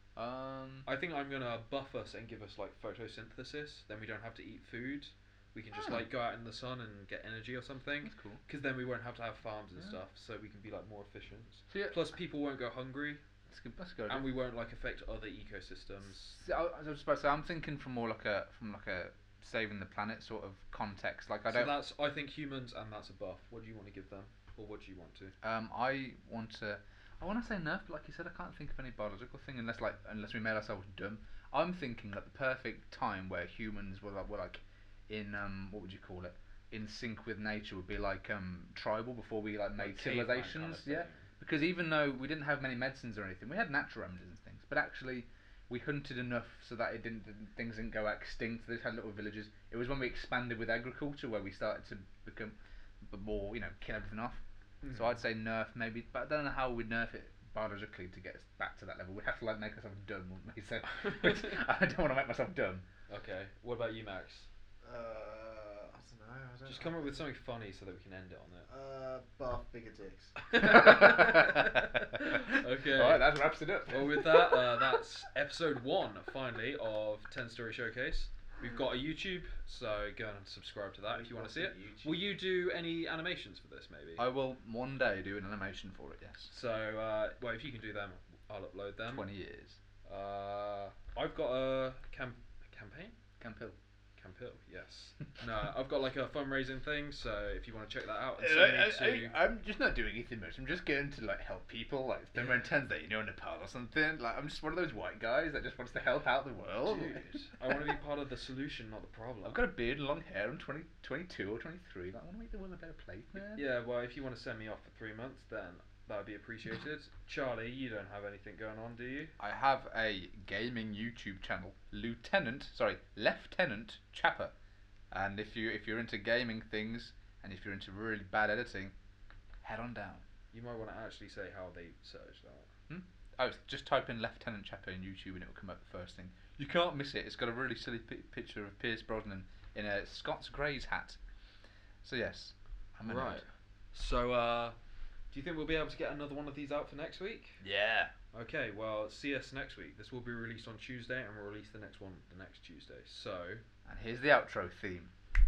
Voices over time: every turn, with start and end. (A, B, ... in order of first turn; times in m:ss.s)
0:00.2-0:00.9 A
0:00.8-0:13.2 B
0:05.8-0:06.0 A
0:08.0-0:08.4 A
0:11.7-0:12.0 A
0:13.5-0:14.3 A
0:14.1-0:16.4 B
0:16.3-0:21.8 A
0:21.5-0:25.3 B
0:25.4-1:02.8 A
0:39.8-0:41.3 B
0:54.8-0:55.2 B
1:01.0-1:01.6 B
1:03.1-1:04.5 B
1:04.8-1:07.2 C
1:06.7-1:08.7 B
1:08.7-1:10.3 C
1:10.5-1:13.3 B
1:10.6-1:14.7 A
1:13.9-1:24.2 B
1:21.0-1:22.3 C
1:24.2-1:26.5 A
1:26.5-1:29.2 B
1:29.0-1:29.8 A
1:30.0-1:33.1 B
1:33.4-1:33.8 A
1:34.2-1:39.3 B
1:38.4-1:47.2 A
1:46.8-1:49.6 B
1:49.4-1:53.6 A
1:53.5-1:59.3 B
1:59.4-2:04.5 A
2:05.1-2:08.9 A
2:09.6-2:10.2 A
2:10.5-2:12.7 B
2:12.9-2:21.2 A
2:22.0-2:23.4 A
2:23.0-2:24.8 B
2:25.3-2:27.6 B
2:27.6-2:28.1 A
2:28.3-2:33.6 B
2:33.8-2:35.1 A